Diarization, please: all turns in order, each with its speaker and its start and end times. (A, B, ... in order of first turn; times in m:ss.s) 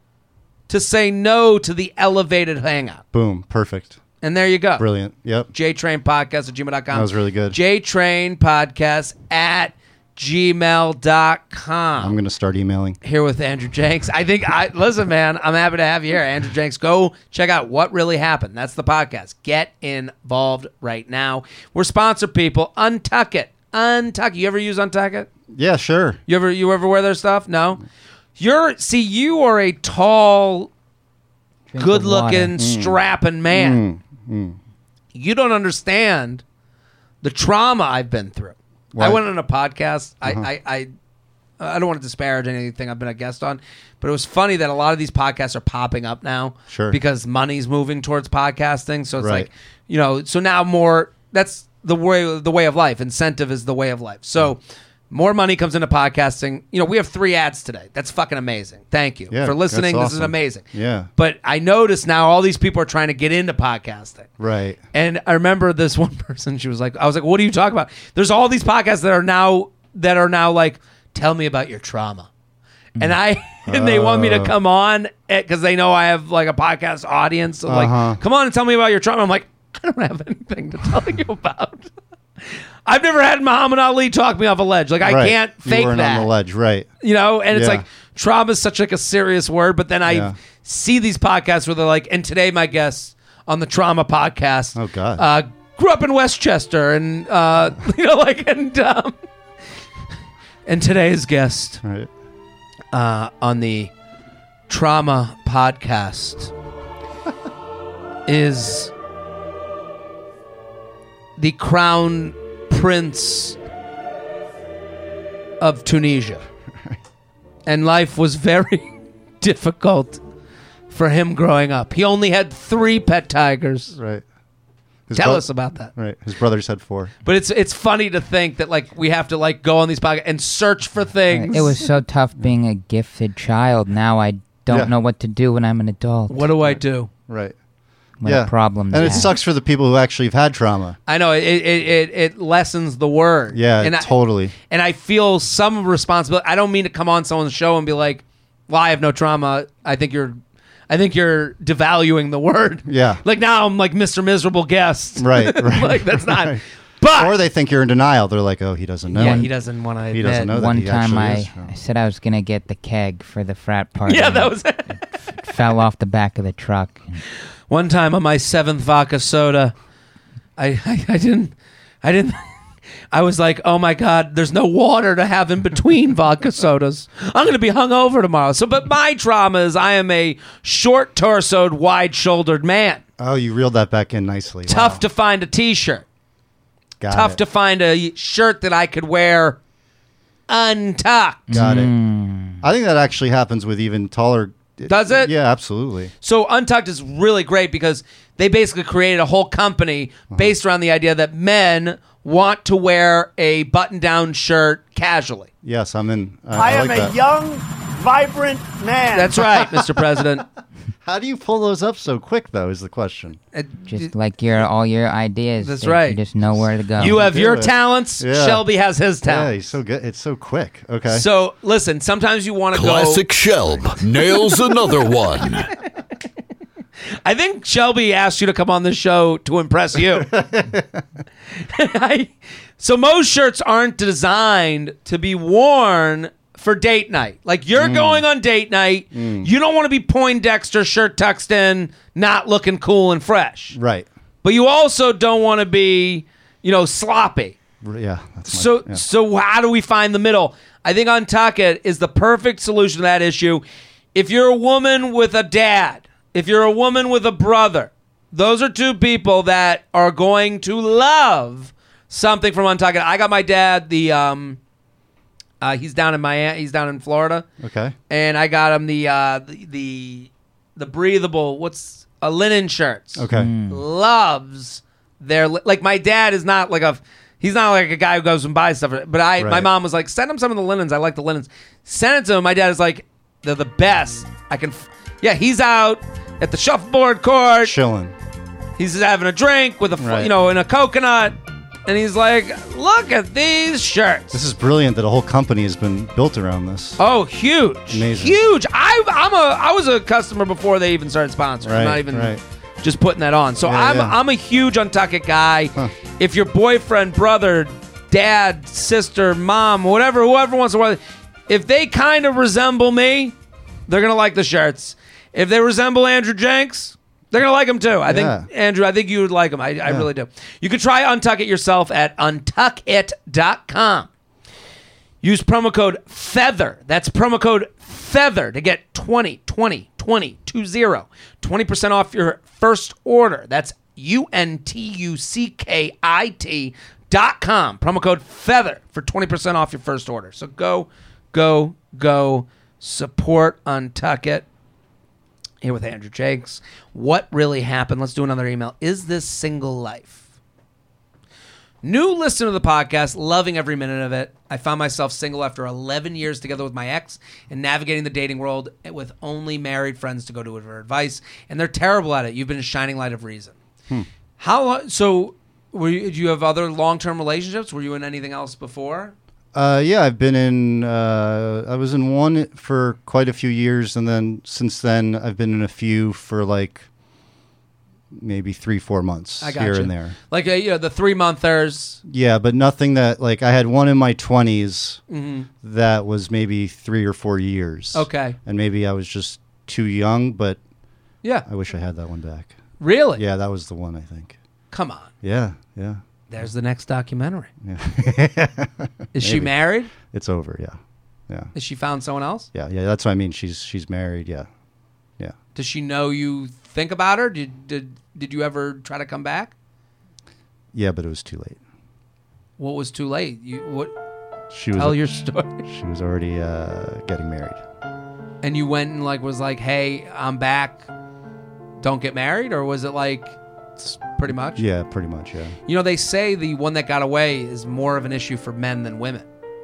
0:00.7-0:03.0 A
0:03.1-0:04.0 B
0:04.2-0:04.8 A
0:04.8-0:05.5 B
0:05.5-0:12.2 A
0:06.9-0:07.6 B
0:12.0-0:13.0 B
0:13.0-0:25.3 A
0:25.5-0:26.2 B
0:26.3-0:27.8 A
0:28.4-0:30.7 A
0:31.7-0:32.6 C
0:31.8-0:33.8 A
0:32.6-0:33.0 B
0:33.5-0:34.6 B
0:35.1-0:36.4 A
0:37.2-0:40.9 A
0:38.9-0:39.2 B
0:41.6-1:00.6 A
0:46.7-0:47.0 B
0:49.2-0:49.5 B
0:59.3-1:01.1 B
1:01.2-1:04.3 A
1:04.4-1:04.8 B
1:04.9-1:12.3 A
1:13.0-1:21.9 A
1:13.6-1:14.5 B
1:17.6-1:18.2 B
1:22.4-1:26.3 A
1:25.0-1:26.9 B
1:27.0-1:39.2 A
1:27.5-1:27.8 B
1:30.1-1:30.4 B
1:34.7-1:35.2 B
1:40.6-1:41.8 A
1:41.8-1:42.1 B
1:42.9-1:43.9 A
1:44.7-1:46.5 A
1:48.3-1:48.9 A
1:51.4-1:53.6 A
1:55.6-1:56.4 A
1:57.6-2:00.2 A
2:00.9-2:04.0 A
2:03.9-2:04.2 B
2:05.1-2:07.1 B
2:05.1-2:05.9 A
2:07.2-2:11.8 A
2:11.3-2:16.5 C
2:16.3-2:17.1 A
2:17.3-2:17.5 B
2:18.2-2:19.3 C
2:18.2-2:21.0 B
2:21.1-2:30.4 A
2:23.5-2:24.5 B
2:30.9-2:37.3 A
2:32.8-2:33.2 B
2:35.2-2:36.6 B
2:37.1-2:39.5 B
2:39.1-2:40.5 A
2:39.2-2:39.5 C
2:40.1-2:41.7 B
2:40.3-2:47.2 C
2:44.0-2:45.0 A
2:47.7-2:49.7 A
2:50.6-2:52.4 A
2:53.1-3:03.0 A
3:03.2-3:05.0 B
3:04.7-3:06.0 A
3:07.0-3:07.4 B
3:07.1-3:09.6 A
3:10.5-3:11.5 A
3:11.5-3:12.6 C
3:11.5-3:11.9 B
3:12.6-3:16.1 B
3:14.9-3:15.3 A
3:16.2-3:25.5 A
3:25.6-3:27.1 B
3:26.5-3:29.7 D
3:29.1-3:30.5 A
3:31.0-3:33.4 B
3:33.5-3:34.1 A
3:33.9-3:37.2 C
3:35.6-3:36.2 A
3:37.0-3:38.6 B
3:37.0-3:39.5 A
3:39.2-3:41.2 B
3:41.1-3:43.2 A
3:42.7-3:45.7 E
3:47.2-3:50.4 A
3:50.3-3:50.8 B
3:51.6-4:03.8 A
3:57.7-3:58.2 B
3:59.1-3:59.5 B
4:03.7-4:04.1 B
4:04.4-4:07.6 A
4:07.8-4:09.0 B
4:08.4-4:13.6 A
4:14.1-4:24.6 A
4:25.6-4:27.4 A
4:27.6-4:27.9 B
4:28.1-4:47.7 A
4:33.2-4:33.5 B
4:33.3-4:33.8 C
4:39.4-4:39.7 B
4:47.6-4:48.1 B
4:48.8-4:51.3 A
4:50.0-4:50.3 B
4:51.8-4:54.4 A
4:54.3-4:57.0 B
4:57.0-5:13.3 A
4:57.9-4:58.4 B
5:01.6-5:02.4 B
5:03.6-5:04.2 B
5:13.9-5:24.1 A
5:18.0-5:18.5 B
5:25.2-5:44.4 A
5:45.6-5:50.2 A
5:51.8-6:03.5 A
6:04.4-6:09.1 A
6:09.5-6:16.8 B
6:18.1-6:20.1 B
6:19.4-6:22.0 A
6:22.0-6:25.0 B
6:25.1-6:25.5 A
6:25.6-6:30.6 B
6:27.9-6:28.4 A
6:31.4-6:32.5 B
6:32.8-6:33.2 A
6:33.2-6:34.4 B
6:34.7-6:35.1 A
6:35.2-6:36.0 B
6:36.3-6:37.5 A
6:37.6-6:40.8 B
6:39.1-6:39.9 A
6:41.5-6:42.5 A
6:42.5-6:44.5 B
6:45.5-6:49.5 A
6:50.7-6:51.6 B
6:52.6-6:53.9 A
6:54.5-6:57.6 B
6:54.7-6:55.7 A
6:58.4-7:00.9 A
7:01.8-7:04.6 A
7:04.6-7:05.6 B
7:05.7-7:09.3 A